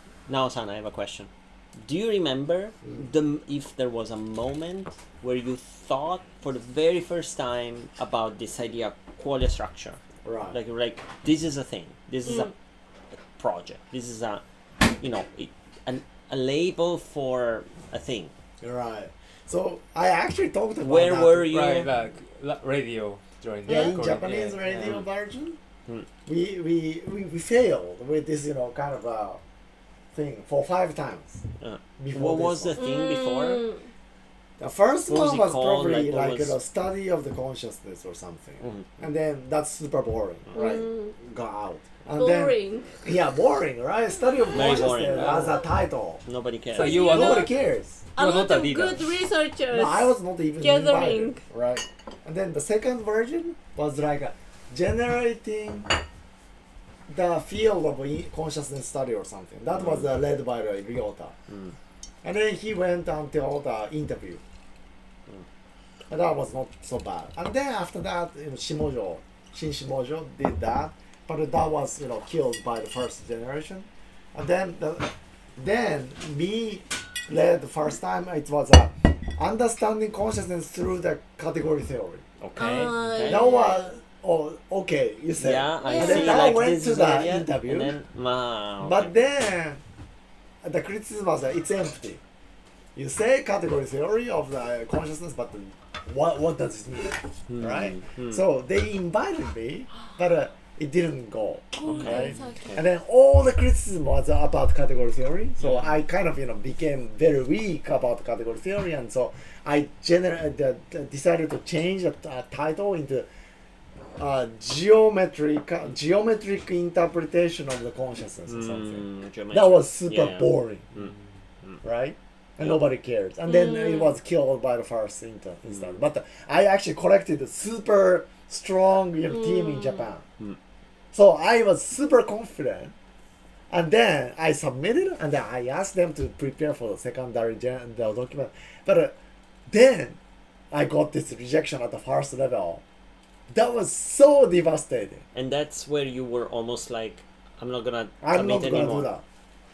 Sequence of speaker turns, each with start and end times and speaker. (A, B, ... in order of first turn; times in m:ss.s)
0:00.3-0:12.5 A
0:10.2-0:10.6 B
0:12.2-0:12.5 C
0:13.1-0:18.3 A
0:18.6-0:21.5 B
0:20.8-0:21.9 A
0:21.4-0:24.9 D
0:23.6-0:25.6 B
0:24.7-0:25.1 A
0:26.2-0:29.4 B
0:30.1-0:31.4 B
0:31.6-0:33.6 A
0:32.0-0:32.8 B
0:32.8-0:33.9 C
0:34.6-0:46.2 B
0:35.0-0:36.6 A
0:38.6-0:38.9 A
0:40.5-0:41.1 C
0:42.1-0:42.9 C
0:44.5-0:45.6 A
0:45.0-0:45.5 D
0:46.2-0:47.0 A
0:46.7-0:47.5 D
0:46.8-0:47.5 C
0:46.8-0:48.0 B
0:48.2-0:51.4 C
0:48.2-0:49.0 D
0:49.7-0:55.9 B
0:57.1-1:01.4 B
0:59.7-1:00.1 A
1:01.5-1:01.8 A
1:02.2-1:04.4 B
1:06.1-1:22.2 B
1:22.4-1:23.5 A
1:22.6-1:24.0 C
1:23.2-1:27.9 B
1:25.4-1:29.2 A
1:25.8-1:26.6 C
1:28.8-1:29.8 B
1:30.6-1:32.2 B
1:32.9-1:53.3 B
1:37.5-1:38.4 A
1:41.7-1:42.8 C
1:41.8-1:42.8 A
1:45.6-1:46.0 A
1:54.2-2:00.8 B
1:58.5-2:01.8 A
2:01.8-2:10.2 B
2:02.6-2:02.9 A
2:03.5-2:04.1 C
2:05.6-2:06.0 A
2:09.3-2:10.0 C
2:11.1-2:12.9 B
2:13.7-2:19.2 B
2:19.7-2:20.2 B
2:20.7-2:22.8 B
2:23.5-2:25.2 B
2:25.3-2:29.1 A
2:28.2-2:29.2 B